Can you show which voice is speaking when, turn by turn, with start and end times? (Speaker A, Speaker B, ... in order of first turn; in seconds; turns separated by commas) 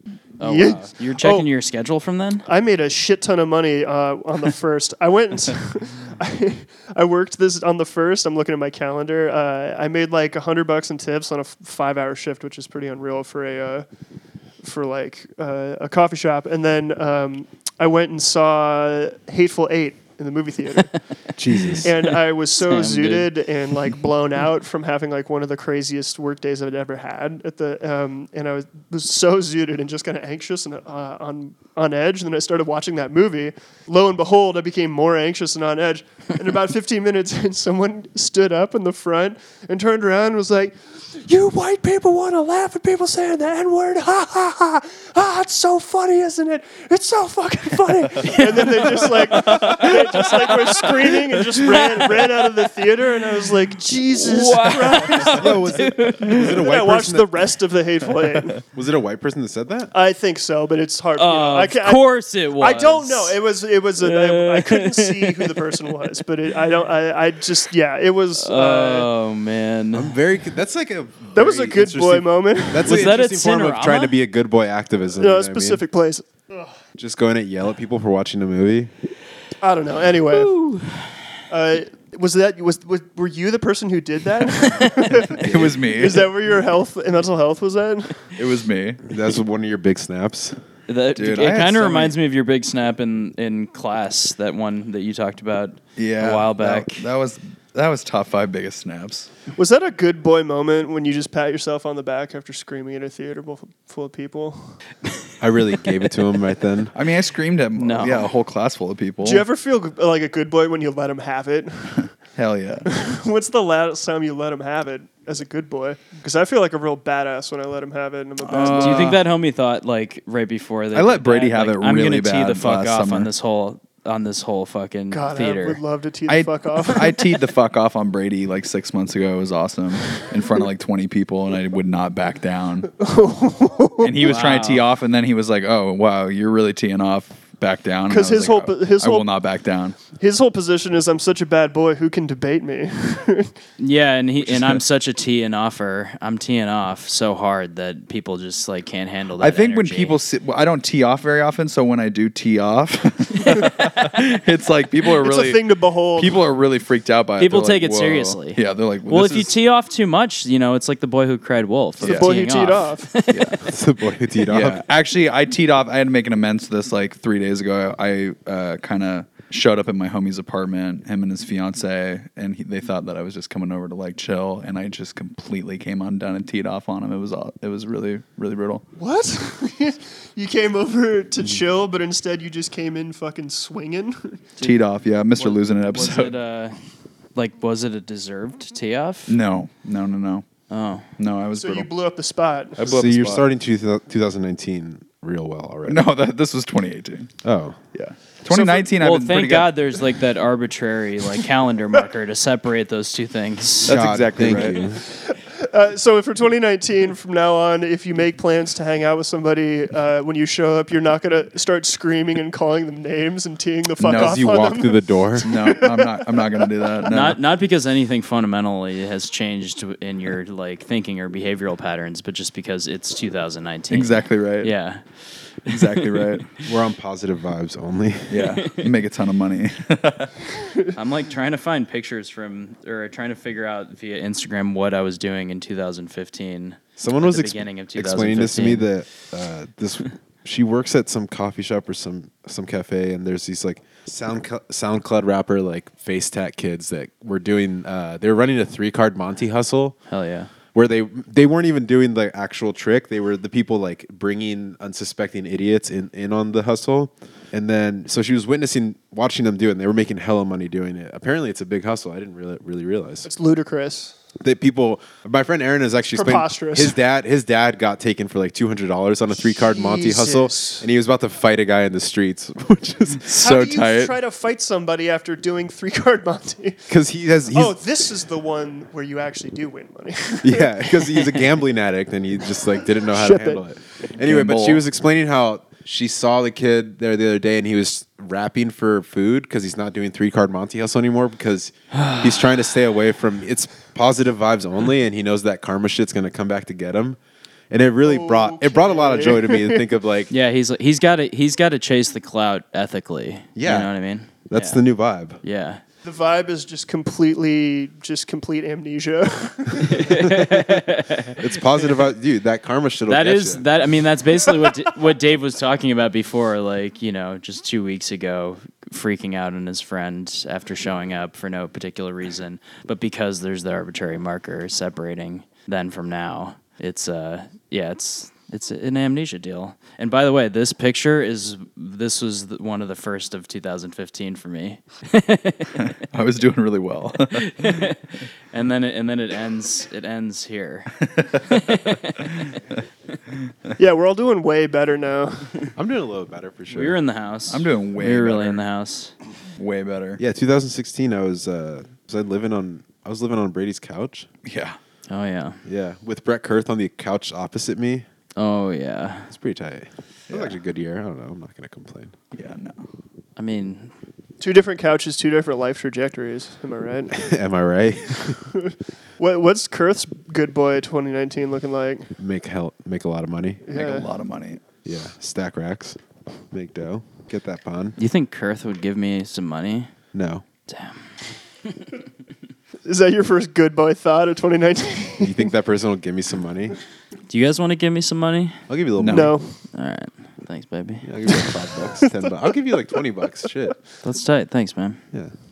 Speaker A: 0.4-2.5, Speaker B: 0.4-1.4, Speaker B: 2.5-13.9, Speaker B: 14.6-21.1, Speaker C: 21.4-21.9, Speaker A: 21.6-22.1, Speaker B: 21.8-58.6, Speaker A: 22.6-23.3, Speaker A: 48.2-51.0, Speaker A: 51.6-52.3, Speaker A: 54.1-56.5, Speaker C: 55.2-57.4, Speaker C: 58.7-59.9, Speaker B: 59.9-69.1, Speaker A: 61.2-63.4, Speaker A: 64.0-65.6, Speaker A: 68.4-70.1, Speaker C: 69.9-75.8, Speaker B: 71.3-73.1, Speaker A: 72.8-74.2, Speaker B: 75.2-76.8, Speaker C: 77.0-78.9, Speaker B: 79.6-80.6, Speaker A: 80.3-81.1, Speaker B: 81.5-88.3, Speaker D: 85.3-86.3, Speaker C: 85.4-85.8, Speaker D: 88.3-89.1, Speaker C: 89.0-90.5, Speaker A: 90.9-97.0, Speaker D: 91.2-92.2, Speaker D: 96.0-99.3, Speaker B: 99.5-104.8, Speaker C: 105.4-106.9, Speaker D: 106.9-109.5, Speaker A: 107.8-108.3, Speaker B: 109.2-112.1, Speaker D: 112.3-112.9, Speaker B: 112.9-119.2, Speaker D: 118.4-119.2, Speaker A: 118.7-125.8, Speaker D: 120.9-123.3, Speaker B: 125.1-127.3, Speaker D: 126.3-132.9, Speaker B: 133.0-134.4, Speaker D: 134.0-140.0, Speaker A: 134.2-134.9, Speaker B: 138.1-139.3, Speaker B: 140.2-143.5, Speaker A: 143.8-150.2, Speaker D: 144.4-144.8, Speaker D: 149.4-159.5, Speaker B: 155.1-156.4, Speaker A: 157.4-163.6, Speaker D: 162.0-162.3, Speaker B: 162.0-163.1, Speaker D: 163.3-163.6, Speaker C: 163.6-164.8, Speaker D: 164.4-178.8, Speaker B: 179.0-184.4, Speaker D: 184.6-186.3, Speaker A: 185.4-186.8, Speaker A: 187.3-189.4, Speaker D: 189.3-190.4, Speaker A: 190.7-191.1, Speaker D: 191.2-191.9, Speaker B: 191.6-192.8, Speaker D: 192.8-193.5, Speaker C: 192.8-196.0, Speaker D: 195.8-197.3, Speaker C: 197.4-197.8, Speaker D: 197.9-199.7, Speaker B: 198.5-198.8, Speaker A: 198.5-203.9, Speaker D: 203.8-204.8, Speaker C: 203.8-205.0, Speaker B: 204.7-216.6, Speaker D: 214.0-214.4, Speaker C: 214.1-215.5, Speaker D: 215.4-217.4, Speaker A: 217.1-225.0, Speaker D: 223.9-224.7, Speaker A: 225.6-226.2, Speaker D: 225.7-226.5, Speaker C: 226.6-228.5, Speaker D: 228.3-230.4, Speaker A: 228.6-228.8, Speaker A: 230.9-238.9, Speaker C: 237.0-250.0, Speaker A: 250.1-250.5, Speaker C: 250.7-263.3, Speaker B: 263.2-264.1, Speaker C: 264.4-273.3, Speaker B: 266.1-266.9, Speaker B: 269.6-270.9, Speaker D: 273.2-274.2, Speaker B: 273.4-276.9, Speaker C: 276.9-277.8, Speaker B: 277.5-281.5, Speaker C: 280.4-297.2, Speaker B: 283.0-283.6, Speaker D: 284.2-284.8, Speaker A: 291.9-292.3, Speaker C: 297.7-300.3, Speaker B: 298.0-299.9, Speaker A: 300.3-304.8, Speaker C: 303.6-303.9, Speaker C: 304.5-305.4, Speaker A: 305.4-305.8, Speaker B: 306.0-310.5, Speaker A: 309.9-311.4, Speaker C: 311.4-313.7, Speaker A: 313.1-335.8, Speaker D: 335.8-337.9, Speaker A: 337.4-340.9, Speaker D: 341.0-342.3, Speaker A: 341.5-342.3, Speaker B: 343.8-345.7, Speaker C: 345.8-347.0, Speaker A: 346.7-349.1, Speaker D: 347.5-348.6, Speaker D: 349.6-350.2, Speaker C: 350.2-354.3, Speaker D: 354.4-354.8, Speaker A: 355.1-355.6, Speaker C: 355.6-358.1, Speaker A: 358.4-359.3, Speaker C: 359.3-362.1, Speaker D: 362.3-362.8, Speaker A: 363.4-363.9, Speaker B: 364.4-367.2, Speaker C: 367.1-368.4, Speaker B: 368.3-372.1, Speaker C: 372.2-373.6, Speaker B: 373.7-374.1, Speaker D: 373.7-374.6, Speaker C: 374.8-376.0, Speaker C: 376.5-378.0, Speaker A: 378.0-379.9, Speaker C: 380.1-380.4, Speaker A: 380.7-381.1, Speaker B: 382.9-385.5, Speaker C: 385.2-386.7, Speaker A: 387.3-388.6, Speaker C: 388.7-389.4, Speaker D: 389.0-389.3, Speaker B: 389.1-389.6, Speaker A: 389.7-391.1, Speaker C: 391.0-393.8, Speaker B: 391.3-392.3, Speaker A: 394.0-395.0